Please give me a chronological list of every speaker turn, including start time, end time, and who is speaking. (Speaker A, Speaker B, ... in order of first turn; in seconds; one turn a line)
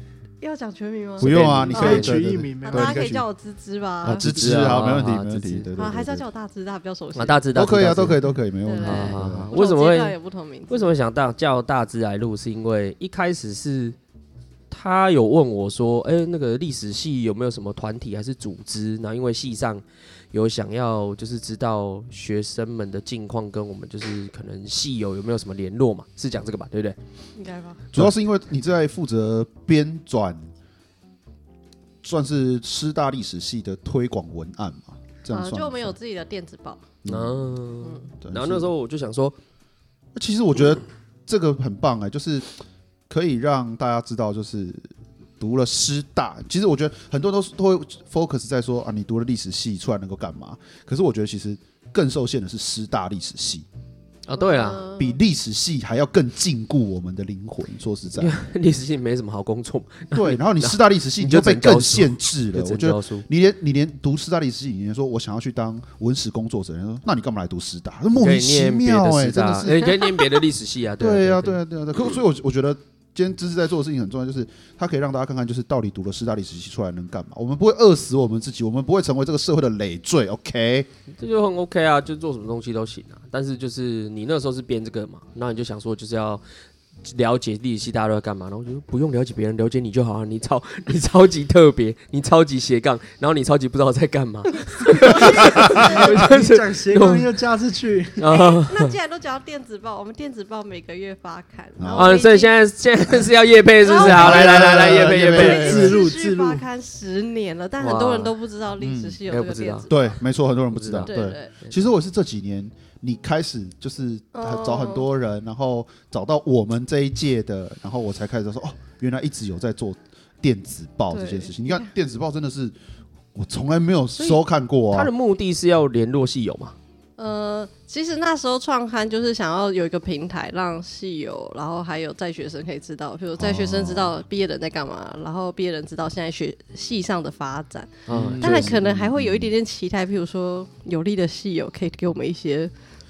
Speaker A: 0.4-4.3
Speaker B: 1.2-2.1
Speaker C: 1.2-3.3
Speaker D: 1.7-3.0
Speaker C: 4.0-6.2
Speaker B: 4.2-5.7
Speaker A: 5.7-7.5
Speaker B: 7.2-8.2
Speaker C: 7.5-9.5
Speaker A: 8.7-10.9
Speaker B: 8.8-10.1
Speaker B: 10.7-14.0
Speaker B: 14.7-27.0
Speaker A: 27.4-27.9
Speaker C: 27.9-30.5
Speaker C: 32.0-35.9
Speaker A: 35.3-36.9
Speaker C: 37.0-37.5
Speaker B: 37.1-39.4
Speaker A: 37.8-38.1
Speaker C: 38.2-38.7
Speaker C: 40.1-42.5
Speaker C: 43.1-44.9
Speaker C: 45.4-53.7
Speaker B: 54.3-54.9
Speaker A: 54.3-55.2
Speaker C: 55.0-58.4
Speaker B: 58.2-63.2
Speaker C: 60.1-70.1
Speaker B: 68.2-71.6
Speaker C: 71.0-80.9
Speaker B: 81.2-86.4
Speaker B: 87.0-97.3
Speaker A: 95.0-96.0
Speaker D: 95.0-98.3
Speaker B: 98.2-98.9
Speaker A: 98.3-102.5
Speaker C: 101.8-102.2
Speaker B: 101.9-105.9
Speaker A: 103.8-110.2
Speaker C: 104.0-106.0
Speaker D: 105.4-106.7
Speaker B: 107.8-108.3
Speaker C: 108.8-109.2
Speaker B: 109.3-109.9
Speaker C: 109.9-122.7
Speaker B: 110.7-111.1
Speaker A: 111.0-111.5
Speaker A: 114.3-115.1
Speaker A: 121.1-121.9
Speaker C: 123.3-125.1
Speaker B: 124.2-126.8
Speaker A: 127.2-142.7
Speaker C: 133.4-134.1
Speaker B: 138.1-138.7
Speaker C: 138.1-139.5